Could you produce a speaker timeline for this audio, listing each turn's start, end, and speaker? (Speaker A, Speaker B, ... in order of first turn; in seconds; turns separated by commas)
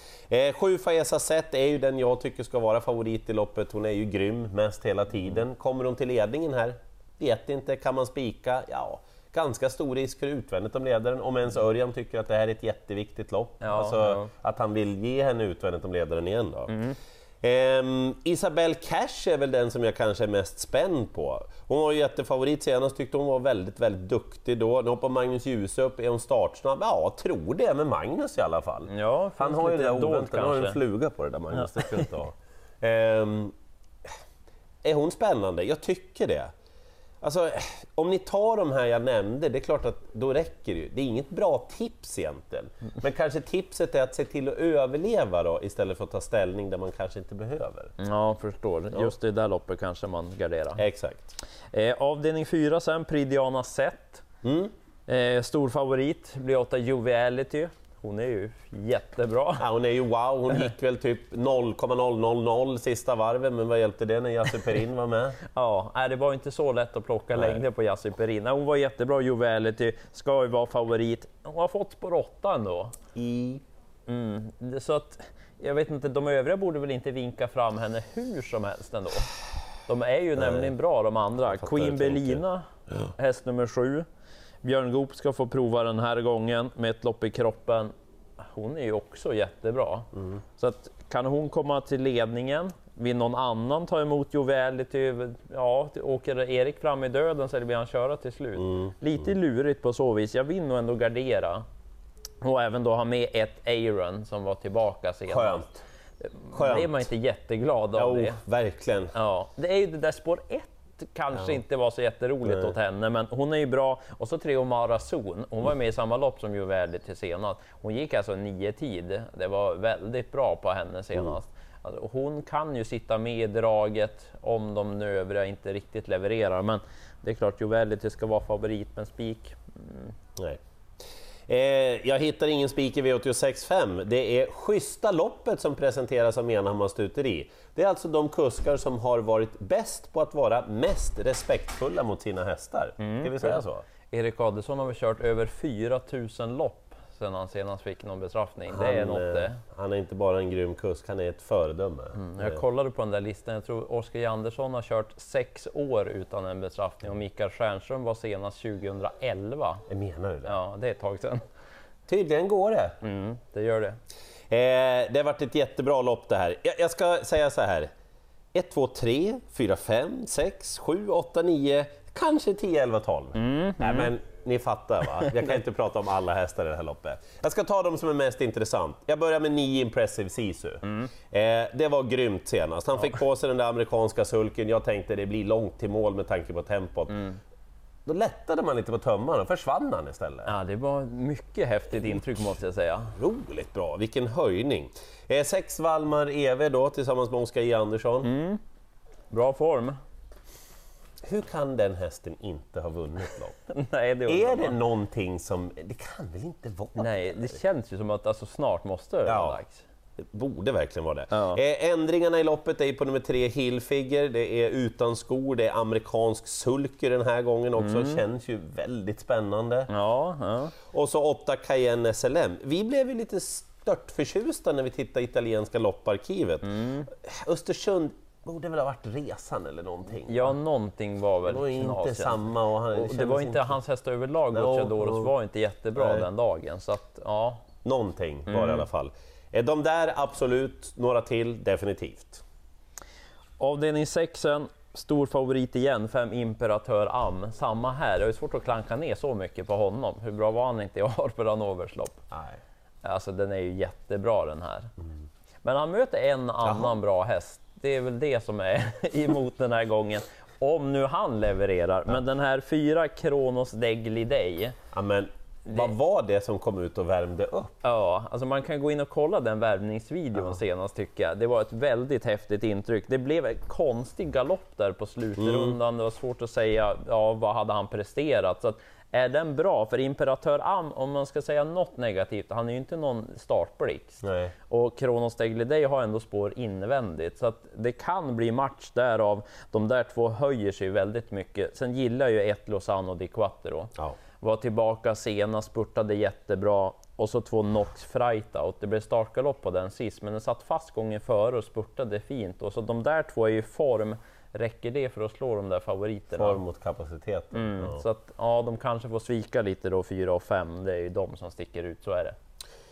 Speaker A: 0.3-16.7, Speaker B: 13.6-14.3, Speaker B: 16.7-17.0, Speaker A: 17.4-33.5, Speaker B: 28.9-30.8, Speaker B: 31.5-32.0, Speaker A: 34.8-36.5, Speaker A: 37.2-47.9, Speaker B: 48.0-50.8, Speaker A: 50.8-51.3, Speaker B: 51.7-54.2, Speaker A: 54.4-54.7, Speaker B: 55.1-59.6, Speaker A: 59.6-65.4, Speaker B: 65.5-73.0, Speaker A: 67.3-67.6, Speaker A: 73.2-73.6, Speaker B: 74.1-79.3, Speaker B: 79.9-82.7, Speaker A: 80.4-80.7, Speaker A: 81.5-82.4, Speaker B: 83.2-84.0, Speaker B: 84.6-101.6, Speaker A: 98.6-98.9, Speaker B: 102.4-105.7, Speaker A: 105.3-105.8, Speaker B: 106.2-108.4, Speaker A: 106.5-107.1, Speaker A: 108.0-109.1, Speaker B: 109.1-130.1, Speaker A: 112.4-112.7, Speaker A: 131.5-143.8, Speaker B: 143.0-149.6, Speaker A: 148.7-152.6, Speaker B: 152.2-159.8, Speaker A: 159.9-160.6, Speaker B: 160.5-161.4, Speaker A: 162.1-163.0, Speaker B: 163.0-164.0, Speaker A: 164.5-167.9, Speaker A: 168.5-187.3, Speaker B: 173.4-174.1, Speaker B: 180.8-181.1, Speaker A: 188.1-190.6, Speaker B: 190.5-193.1, Speaker A: 193.2-198.3, Speaker B: 198.2-198.6, Speaker B: 199.3-200.0, Speaker A: 201.2-203.6, Speaker B: 203.7-204.8, Speaker A: 204.3-207.6, Speaker B: 207.0-209.8, Speaker A: 209.2-209.6, Speaker A: 210.2-219.9, Speaker B: 211.3-211.6, Speaker B: 217.8-218.2, Speaker B: 219.9-220.8, Speaker A: 220.9-230.6, Speaker B: 226.6-227.1, Speaker B: 230.3-237.7, Speaker A: 231.5-233.8, Speaker A: 234.5-235.3, Speaker A: 236.0-236.3, Speaker A: 237.8-242.4, Speaker B: 238.5-238.9, Speaker B: 243.6-252.2, Speaker A: 252.3-252.6, Speaker B: 253.0-254.9, Speaker B: 255.6-264.8, Speaker A: 256.6-257.0, Speaker A: 264.9-267.8, Speaker B: 267.8-306.6, Speaker A: 275.4-275.8, Speaker A: 284.2-284.5, Speaker A: 306.3-308.0, Speaker B: 307.5-312.4